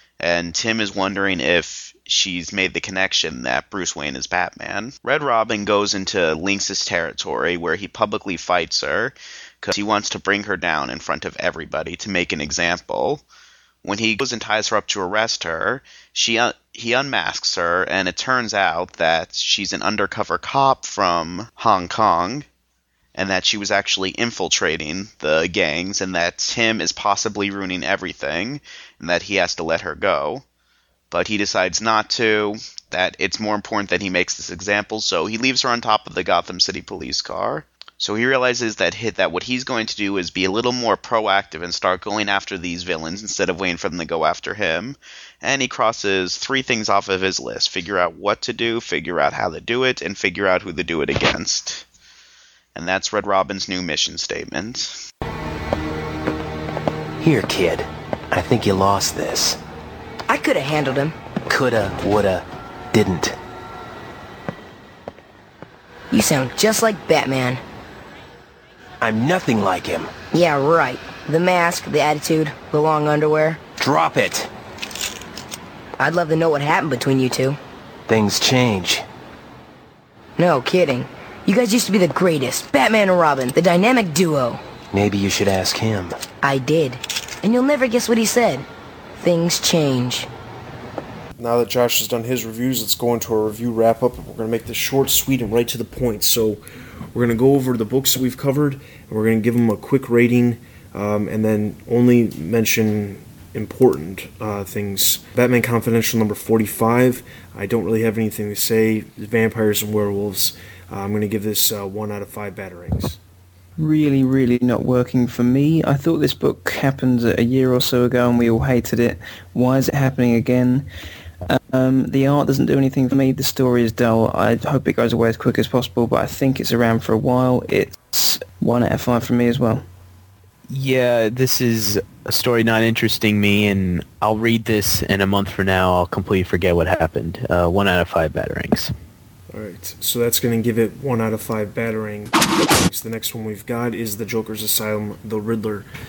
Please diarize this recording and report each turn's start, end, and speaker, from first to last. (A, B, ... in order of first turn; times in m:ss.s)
0:00.2-0:13.2 A
0:13.8-0:22.4 A
0:23.1-0:30.4 A
0:31.1-0:51.8 A
0:52.7-0:55.0 A
0:57.2-0:59.6 B
1:00.3-1:01.2 C
1:01.5-1:03.4 B
1:06.1-1:07.6 C
1:09.0-1:10.1 B
1:10.3-1:13.6 C
1:13.8-1:14.5 B
1:16.0-1:17.6 C
1:18.1-1:19.0 B
1:20.4-1:24.6 C
1:24.9-1:26.2 B
1:26.4-1:28.6 C
1:29.2-1:30.3 C
1:31.4-1:36.6 D
1:37.1-1:53.2 D
1:53.8-2:00.9 E
2:01.5-2:09.8 E
2:10.7-2:18.9 F
2:19.5-2:25.9 D